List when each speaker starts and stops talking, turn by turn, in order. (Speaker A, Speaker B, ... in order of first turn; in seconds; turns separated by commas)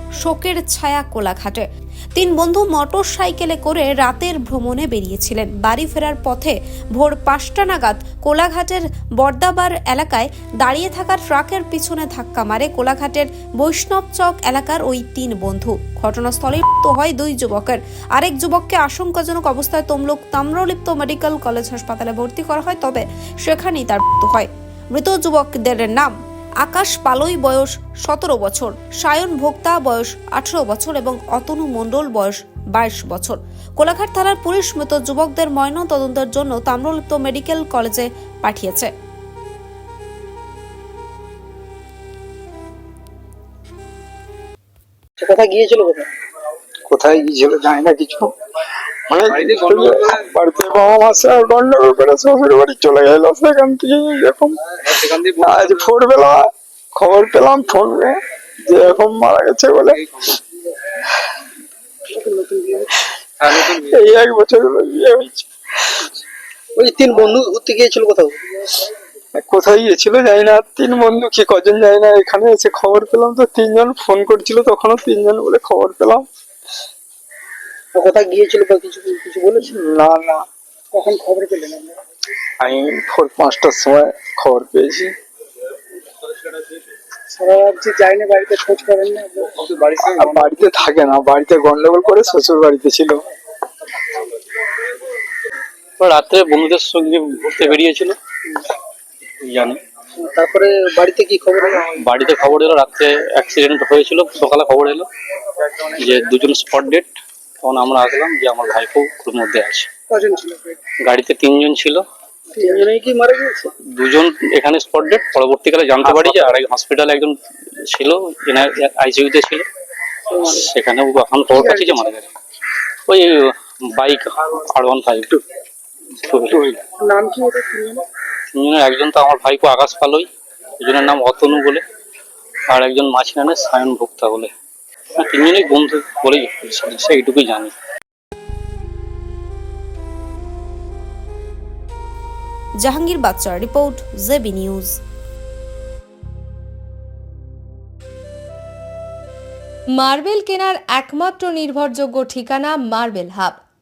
Speaker A: 0.2-38.9, Speaker B: 45.2-46.1, Speaker C: 46.9-48.3, Speaker C: 49.1-54.5, Speaker C: 55.2-58.2, Speaker C: 58.7-60.0, Speaker B: 62.2-62.8, Speaker C: 63.5-65.5, Speaker B: 66.8-68.3, Speaker C: 69.3-76.2, Speaker B: 77.9-79.8, Speaker C: 79.7-80.4, Speaker B: 80.9-81.9, Speaker C: 82.6-85.1, Speaker B: 87.4-90.7, Speaker C: 90.2-93.2, Speaker D: 96.0-98.2, Speaker D: 99.5-99.8, Speaker B: 100.2-101.9, Speaker D: 102.0-105.1, Speaker D: 106.0-107.1, Speaker D: 107.6-109.9, Speaker B: 110.1-110.6, Speaker D: 111.1-112.0, Speaker B: 112.5-113.7, Speaker D: 114.0-117.3, Speaker B: 116.0-116.4, Speaker D: 117.9-119.7, Speaker D: 120.5-122.2, Speaker B: 121.5-122.0, Speaker D: 123.1-125.4, Speaker D: 126.2-126.8, Speaker B: 127.0-128.0, Speaker D: 128.6-130.3, Speaker D: 130.8-131.8, Speaker D: 132.7-134.5, Speaker D: 135.2-137.7, Speaker A: 142.8-144.9, Speaker E: 150.0-153.6